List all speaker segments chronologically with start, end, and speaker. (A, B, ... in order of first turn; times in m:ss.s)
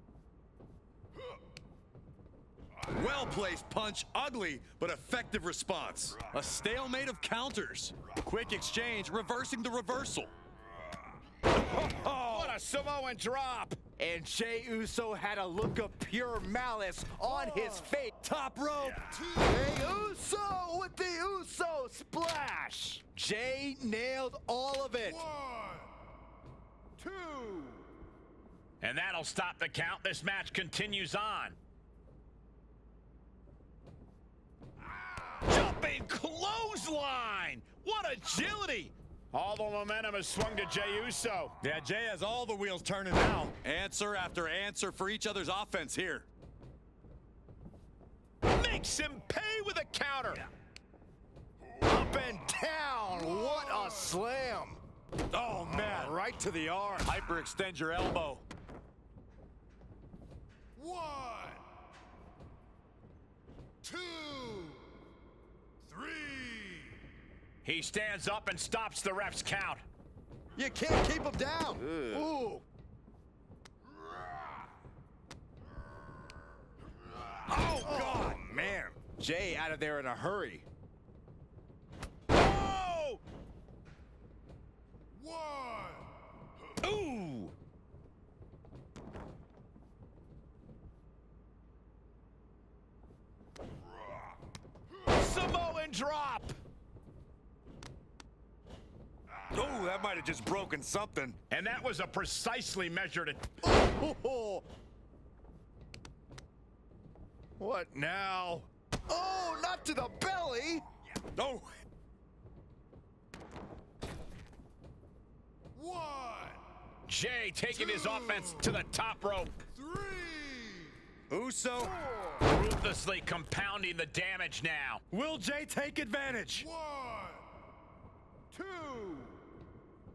0:02.9-0:10.3 A
0:11.5-0:12.6 A
0:12.3-0:13.8 B
0:14.0-0:18.1 C
0:17.3-0:17.9 D
0:18.2-0:19.1 A
0:19.0-0:20.1 D
0:19.4-0:25.2 C
0:25.0-0:25.9 D
0:27.0-0:27.9 C
0:28.8-0:31.6 B
0:35.4-0:41.6 B
0:41.6-0:46.3 A
0:48.5-0:50.4 B
0:51.8-0:54.8 C
0:53.1-0:54.2 D
0:55.3-0:56.1 A
0:55.7-0:57.1 C
0:57.0-0:58.4 A
1:00.7-1:01.6 D
1:03.8-1:04.9 D
1:05.8-1:07.0 D
1:07.6-1:09.8 B
1:10.6-1:12.6 C
1:17.5-1:18.7 A
1:17.6-1:20.6 C
1:22.3-1:23.2 B
1:25.1-1:26.1 D
1:26.8-1:27.5 B
1:35.1-1:36.6 B
1:39.5-1:41.4 A
1:41.5-1:43.4 B
1:43.6-1:44.6 C
1:47.6-1:50.8 C
1:51.4-1:51.7 A
1:55.7-1:56.6 D
1:57.1-1:59.5 B
1:57.7-1:58.7 D
1:59.7-2:01.0 D
2:01.3-2:01.9 A
2:01.8-2:02.5 C
2:02.4-2:05.0 B
2:05.1-2:06.7 A
2:06.5-2:07.4 D
2:08.5-2:09.4 C